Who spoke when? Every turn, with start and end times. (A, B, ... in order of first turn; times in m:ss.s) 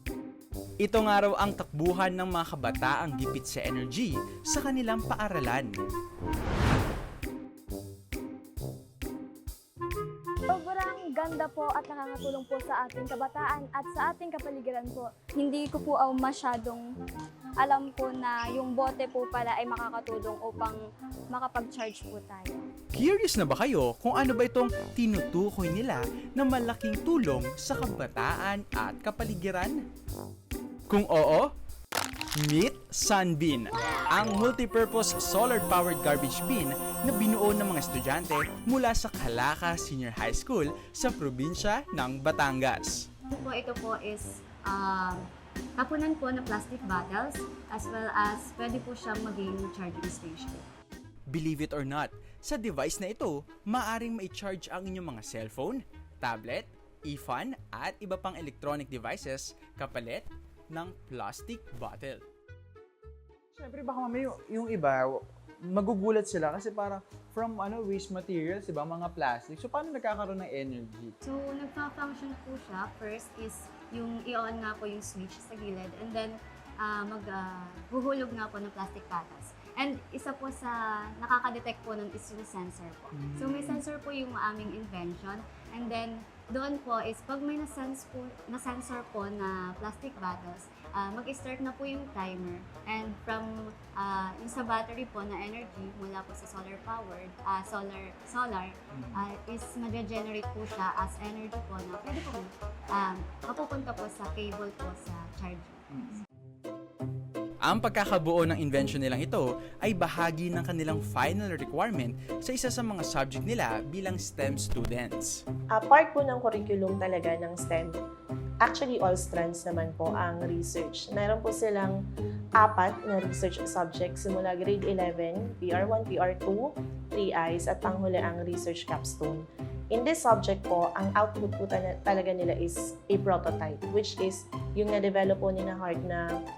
0:00.8-0:05.7 A
0:10.5-0:16.9 B
0:17.6-0:22.7 B
0:22.9-0:29.8 A
0:30.9-0:31.5 A
0:32.4-0:43.0 A
0:43.3-0:45.2 C
0:45.8-0:50.6 C
0:51.3-1:02.2 A
1:03.6-1:11.1 D
1:11.2-1:45.8 C
1:23.1-1:23.8 D
1:38.9-1:39.2 D
1:45.9-1:46.2 D
1:47.6-1:55.4 A
1:55.7-1:58.0 E
1:58.6-2:02.0 E
2:02.6-2:16.3 E